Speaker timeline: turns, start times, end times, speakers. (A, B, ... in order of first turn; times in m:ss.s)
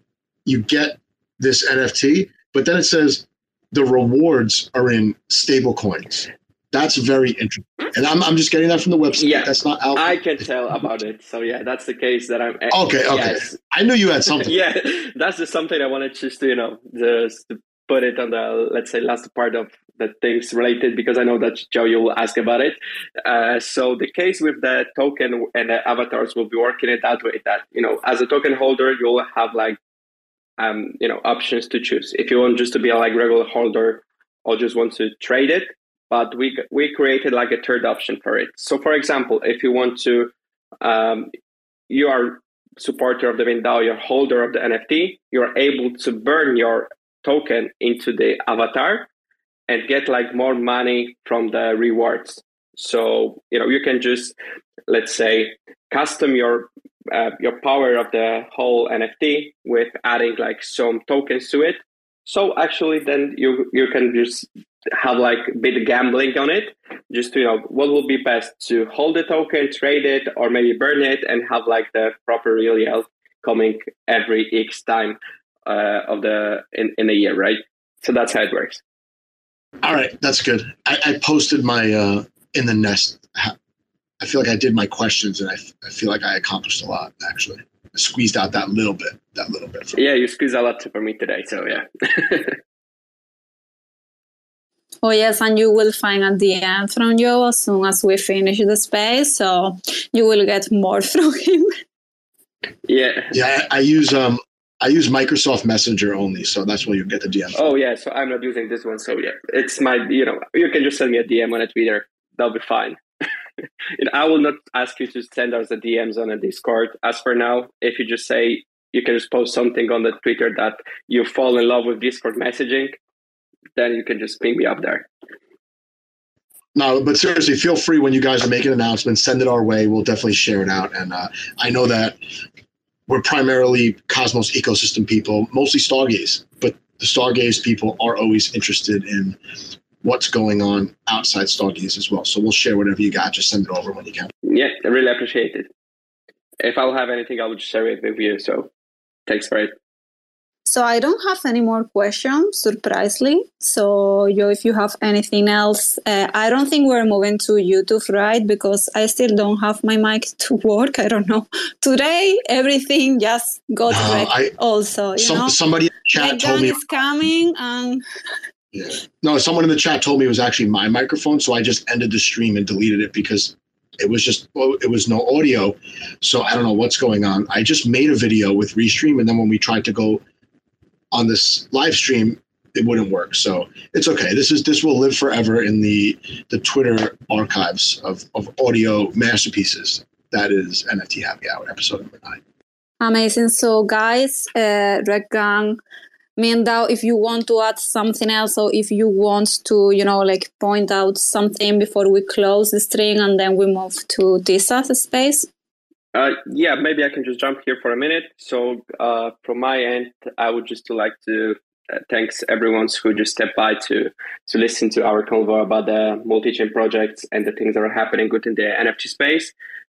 0:00.5-0:10.2 A
0:09.2-0:13.5 B
0:12.7-0:14.5 A
0:14.4-0:29.8 B
0:30.6-0:41.3 B
0:41.9-0:49.1 B
0:49.7-0:54.4 B
0:54.9-1:18.8 B
1:19.8-1:23.6 A
1:24.2-1:30.0 A
1:30.0-1:32.6 B
1:35.0-1:41.7 C
1:42.9-1:43.3 B
1:43.3-1:47.7 A
1:47.6-1:53.0 B
1:54.0-2:03.0 B
2:03.8-2:05.0 B
2:06.8-2:12.2 A
2:13.1-2:19.4 A
2:20.0-2:24.3 A
2:24.4-2:25.7 B
2:26.6-2:28.7 B
2:29.3-2:29.7 B
2:30.7-2:45.6 C
2:43.9-2:44.5 A
2:45.2-2:46.8 A
2:46.1-2:48.0 C
2:48.7-3:00.2 A
3:01.1-3:12.4 A
3:13.0-3:15.8 C
3:16.4-3:25.5 C
3:26.1-3:31.6 B
3:32.1-3:39.5 B